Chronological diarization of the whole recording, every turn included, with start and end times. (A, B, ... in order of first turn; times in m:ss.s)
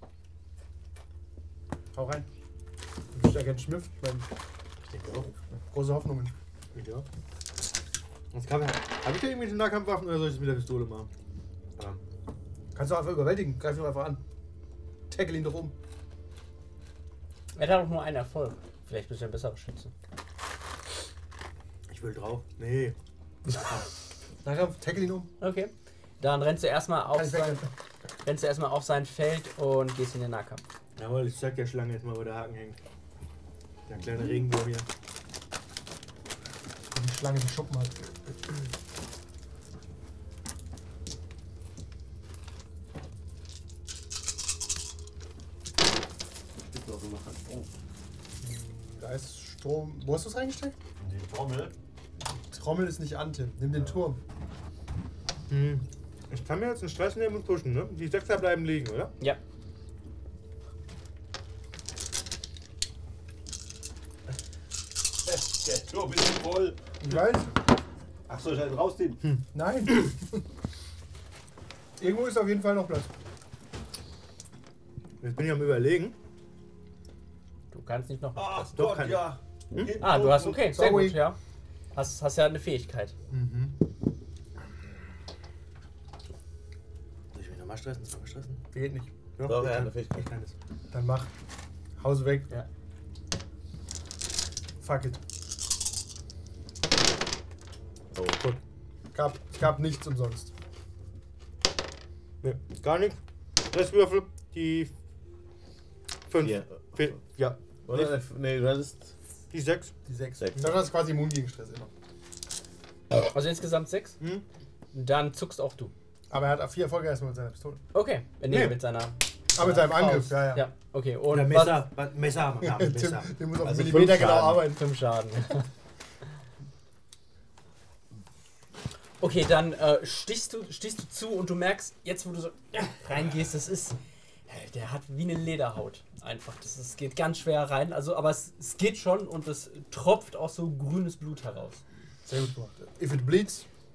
0:01.9-0:02.3 A
0:03.1-0:04.3 A
0:04.9-0:05.3 B
0:05.7-0:06.3 A
0:06.7-0:07.0 B
0:08.3-0:11.1 B
0:12.7-0:14.2 A
0:15.1-0:15.7 A
0:17.5-0:19.9 C
0:21.9-0:23.9 B
0:24.4-0:25.3 A
0:25.4-0:27.6 C
0:27.1-0:27.7 A
0:28.2-0:30.6 C
0:31.0-0:32.8 B
0:33.9-0:34.9 B
0:36.9-0:38.1 A
0:46.6-0:47.7 D
0:48.4-0:50.8 A
0:51.0-0:51.7 D
0:52.5-0:54.2 A
0:55.5-0:59.1 B
1:05.2-1:06.8 D
1:07.0-1:07.5 A
1:08.3-1:09.2 D
1:09.5-1:10.4 A
1:12.0-1:13.1 A
1:15.2-1:16.1 B
1:17.7-1:18.7 C
1:18.4-1:20.5 D
1:18.7-1:19.8 B
1:20.0-1:21.4 C
1:20.0-1:21.3 A
1:21.9-1:23.1 C
1:23.3-1:23.7 A
1:27.3-1:28.6 B
1:28.7-1:29.1 A
1:29.4-1:30.5 B
1:29.4-1:30.2 E
1:30.9-1:31.3 A
1:32.0-1:32.6 A
1:34.8-1:35.2 A
1:38.1-1:38.4 E
1:39.1-1:40.5 A
1:42.4-1:43.2 B
1:43.7-1:44.9 B
1:46.3-1:48.1 B
1:46.4-1:47.1 E
1:47.8-1:49.1 E
1:49.5-1:49.9 B
1:50.0-1:51.9 A
1:53.2-1:54.2 C
1:54.9-1:55.9 C
1:56.3-1:57.8 A
1:57.9-2:01.9 C
1:58.5-1:58.8 B
1:59.6-2:00.6 A
2:01.3-2:03.3 B
2:02.6-2:04.8 A
2:03.6-2:04.7 E
2:04.7-2:05.7 C
2:09.2-2:21.8 C
2:22.2-2:23.6 A